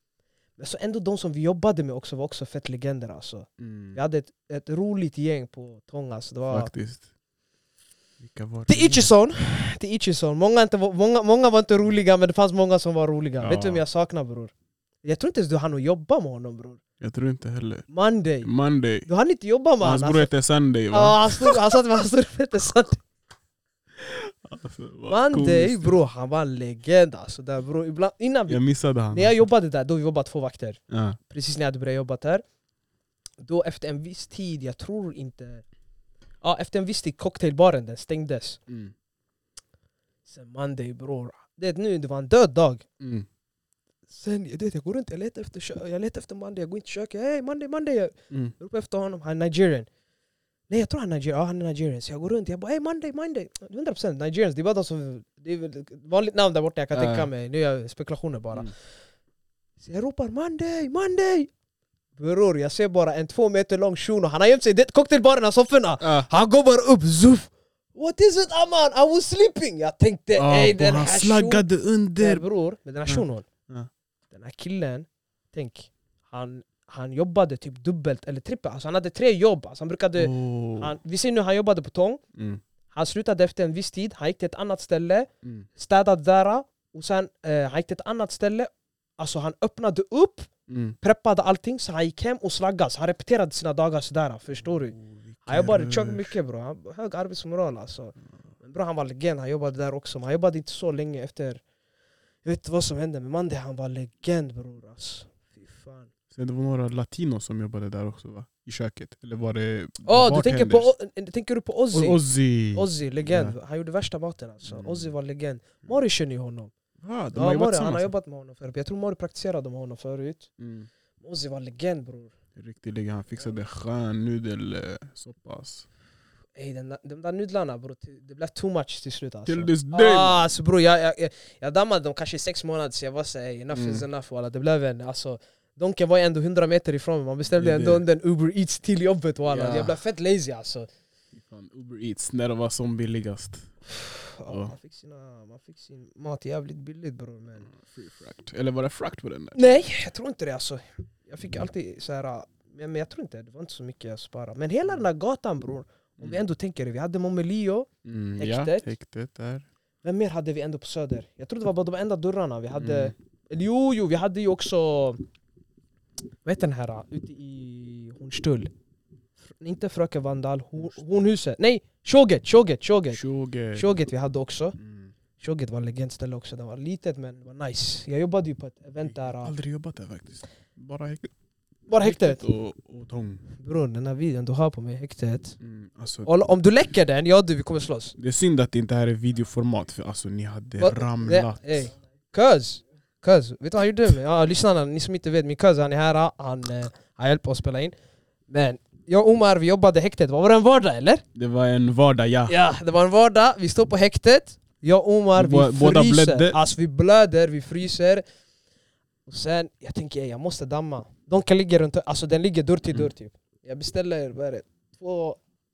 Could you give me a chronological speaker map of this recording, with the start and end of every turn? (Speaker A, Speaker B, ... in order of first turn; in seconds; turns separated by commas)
Speaker A: 0.6-6.7, Speaker B: 3.6-4.0, Speaker B: 6.5-7.1, Speaker B: 8.2-9.1, Speaker A: 8.7-14.5, Speaker B: 13.4-13.8, Speaker A: 15.0-16.8, Speaker B: 17.0-17.9, Speaker A: 17.9-18.5, Speaker B: 18.4-19.1, Speaker A: 19.1-20.3, Speaker B: 19.8-21.6, Speaker A: 20.9-23.0, Speaker B: 24.0-26.0, Speaker A: 25.1-32.4, Speaker B: 28.5-29.4, Speaker B: 30.9-31.2, Speaker A: 33.4-35.6, Speaker A: 36.4-38.6, Speaker B: 38.7-38.9, Speaker A: 40.3-42.8, Speaker B: 43.0-43.3, Speaker A: 44.1-49.9, Speaker A: 50.7-58.7, Speaker B: 56.9-57.3, Speaker A: 59.8-61.5, Speaker A: 62.2-71.6, Speaker B: 66.0-66.3, Speaker B: 70.4-72.4, Speaker A: 72.2-73.5, Speaker B: 73.0-73.9, Speaker A: 74.3-82.2, Speaker B: 80.2-80.9, Speaker A: 82.9-90.5, Speaker B: 90.7-91.0, Speaker A: 91.0-94.9, Speaker B: 94.6-96.3, Speaker A: 95.5-101.6, Speaker A: 102.4-106.1, Speaker B: 106.3-110.9, Speaker A: 110.0-112.2, Speaker B: 111.9-113.5, Speaker A: 112.7-116.7, Speaker B: 114.6-115.1, Speaker B: 117.0-118.1, Speaker A: 117.3-120.5, Speaker B: 120.6-120.9, Speaker A: 121.2-122.3, Speaker B: 122.5-125.9, Speaker A: 126.5-140.9, Speaker B: 129.4-130.5, Speaker B: 133.7-134.1, Speaker B: 137.4-138.0, Speaker B: 139.5-140.0, Speaker B: 141.3-143.7, Speaker A: 143.9-147.7, Speaker B: 144.5-144.7, Speaker B: 147.6-149.8, Speaker A: 149.5-158.9, Speaker B: 158.0-159.7, Speaker A: 160.0-165.2, Speaker B: 162.7-163.1, Speaker A: 166.4-168.7, Speaker A: 169.5-173.2, Speaker B: 173.1-173.9, Speaker A: 173.7-174.8, Speaker B: 174.8-175.1, Speaker A: 175.4-179.5, Speaker B: 179.0-181.3, Speaker A: 181.9-182.4, Speaker B: 182.0-183.4, Speaker A: 183.6-185.6, Speaker B: 185.6-186.3, Speaker A: 186.2-188.1, Speaker B: 188.2-191.9, Speaker A: 190.8-197.9, Speaker A: 198.5-201.2, Speaker B: 201.3-202.6, Speaker A: 202.5-208.2, Speaker B: 205.3-206.6, Speaker A: 209.3-215.4